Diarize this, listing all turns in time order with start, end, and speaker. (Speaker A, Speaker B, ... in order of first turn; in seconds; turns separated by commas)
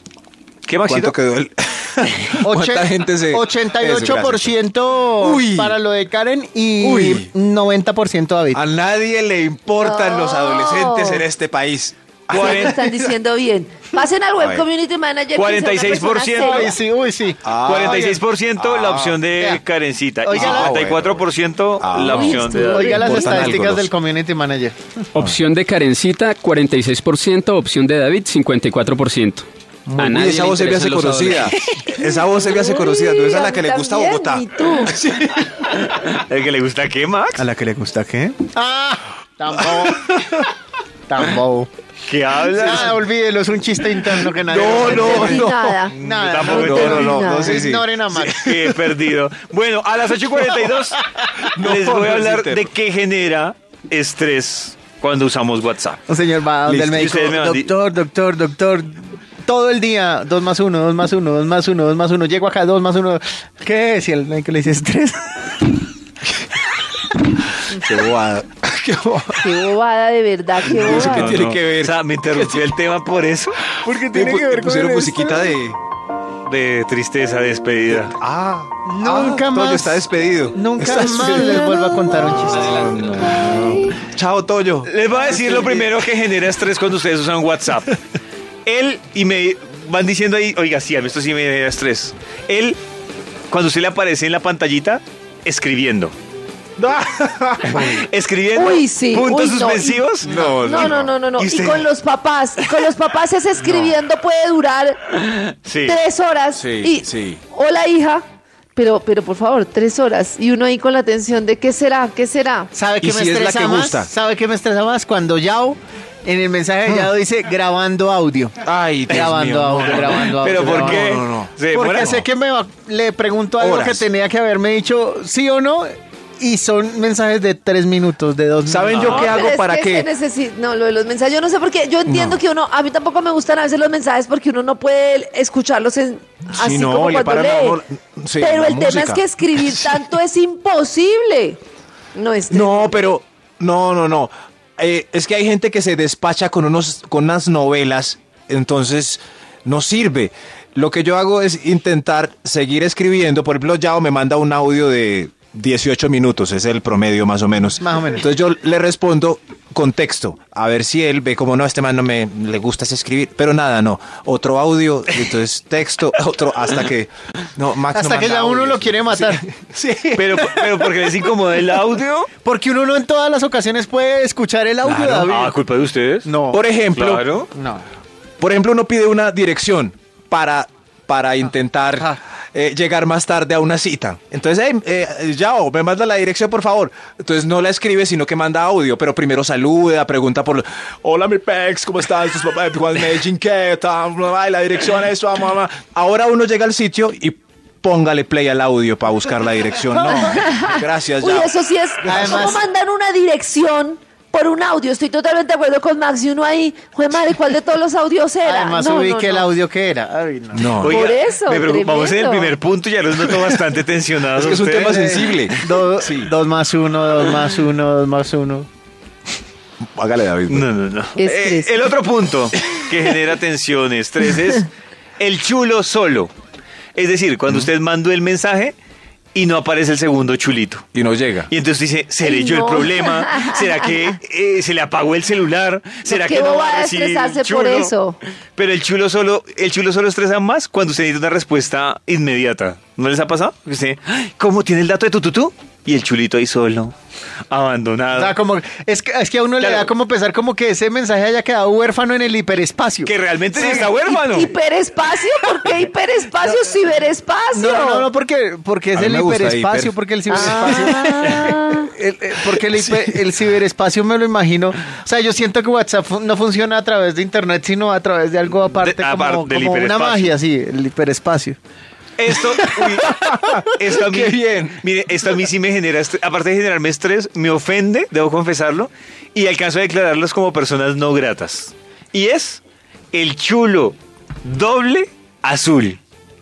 Speaker A: 0.7-1.2, Speaker B: 0.9-4.5, Speaker C: 2.4-8.6, Speaker B: 5.2-5.8, Speaker B: 6.8-7.3, Speaker B: 8.5-13.1, Speaker D: 9.8-11.2, Speaker D: 12.3-16.8, Speaker C: 12.4-12.7, Speaker B: 14.4-14.6, Speaker A: 15.3-16.7, Speaker C: 16.3-18.2, Speaker B: 17.4-19.2, Speaker A: 17.6-23.7, Speaker C: 19.4-19.6, Speaker C: 20.2-20.7, Speaker B: 20.3-21.2, Speaker B: 21.8-23.9, Speaker D: 21.9-23.2, Speaker C: 22.5-25.0, Speaker E: 25.1-31.6, Speaker B: 29.9-35.7, Speaker D: 31.9-35.0, Speaker A: 35.7-37.4, Speaker C: 37.4-40.2, Speaker B: 39.7-40.5, Speaker C: 41.1-41.7, Speaker A: 42.0-43.0, Speaker C: 42.5-48.5, Speaker B: 43.9-48.8, Speaker D: 44.7-46.0, Speaker A: 46.1-47.0, Speaker D: 46.5-47.7, Speaker A: 48.1-51.0, Speaker C: 51.0-51.5, Speaker B: 51.4-52.7, Speaker A: 51.6-56.0, Speaker C: 56.1-65.6, Speaker B: 56.6-57.1, Speaker A: 56.9-57.7, Speaker B: 66.3-66.6, Speaker B: 67.6-69.5, Speaker D: 69.4-71.4, Speaker B: 70.6-72.6, Speaker A: 71.0-73.6, Speaker B: 73.7-75.8, Speaker C: 73.8-75.6, Speaker A: 76.5-78.2, Speaker B: 78.0-85.9, Speaker C: 78.8-83.1, Speaker A: 84.9-88.0, Speaker A: 88.7-92.8, Speaker A: 93.5-96.1, Speaker B: 96.8-98.0, Speaker A: 97.6-101.9, Speaker D: 98.5-105.2, Speaker B: 100.2-101.1, Speaker A: 102.6-102.9, Speaker A: 103.7-103.9, Speaker A: 105.6-106.0, Speaker D: 105.8-108.2, Speaker B: 106.5-107.4, Speaker D: 108.7-112.7, Speaker C: 112.7-118.5, Speaker B: 113.0-114.1, Speaker B: 118.6-122.2, Speaker C: 119.1-121.2, Speaker A: 120.3-122.2, Speaker C: 121.7-129.2, Speaker B: 123.6-124.0, Speaker B: 128.7-130.1, Speaker A: 128.9-129.4, Speaker D: 129.1-137.8, Speaker B: 132.1-132.4, Speaker B: 136.5-140.0, Speaker D: 138.4-141.6, Speaker D: 142.1-143.1, Speaker B: 142.5-170.6, Speaker C: 157.8-158.3, Speaker C: 167.9-169.4, Speaker A: 170.1-172.3, Speaker C: 172.4-175.6, Speaker A: 174.9-176.3, Speaker B: 174.9-175.3, Speaker C: 176.2-176.6, Speaker B: 176.5-177.2, Speaker A: 176.9-177.5, Speaker C: 177.5-177.8, Speaker B: 178.4-202.5, Speaker C: 199.9-200.4, Speaker D: 200.0-209.5, Speaker C: 202.0-202.6, Speaker C: 208.4-210.9, Speaker B: 210.5-211.1, Speaker A: 210.8-215.2, Speaker D: 210.9-212.6, Speaker B: 214.3-216.3, Speaker C: 214.8-218.7, Speaker B: 219.8-220.7, Speaker A: 220.5-226.3, Speaker D: 221.2-221.7, Speaker A: 226.9-228.7, Speaker A: 229.3-230.8, Speaker B: 230.9-231.5, Speaker A: 231.5-237.9, Speaker D: 232.2-234.0, Speaker D: 236.1-238.2, Speaker A: 238.5-246.9, Speaker A: 247.5-248.3, Speaker C: 248.1-253.9, Speaker A: 249.6-249.9, Speaker A: 253.0-254.5, Speaker D: 253.6-258.1, Speaker C: 257.5-271.6, Speaker B: 258.9-261.1, Speaker D: 260.3-261.9, Speaker A: 261.3-261.5, Speaker B: 262.5-263.1, Speaker A: 268.6-270.3, Speaker A: 272.2-282.6, Speaker B: 272.6-274.8, Speaker A: 283.1-286.0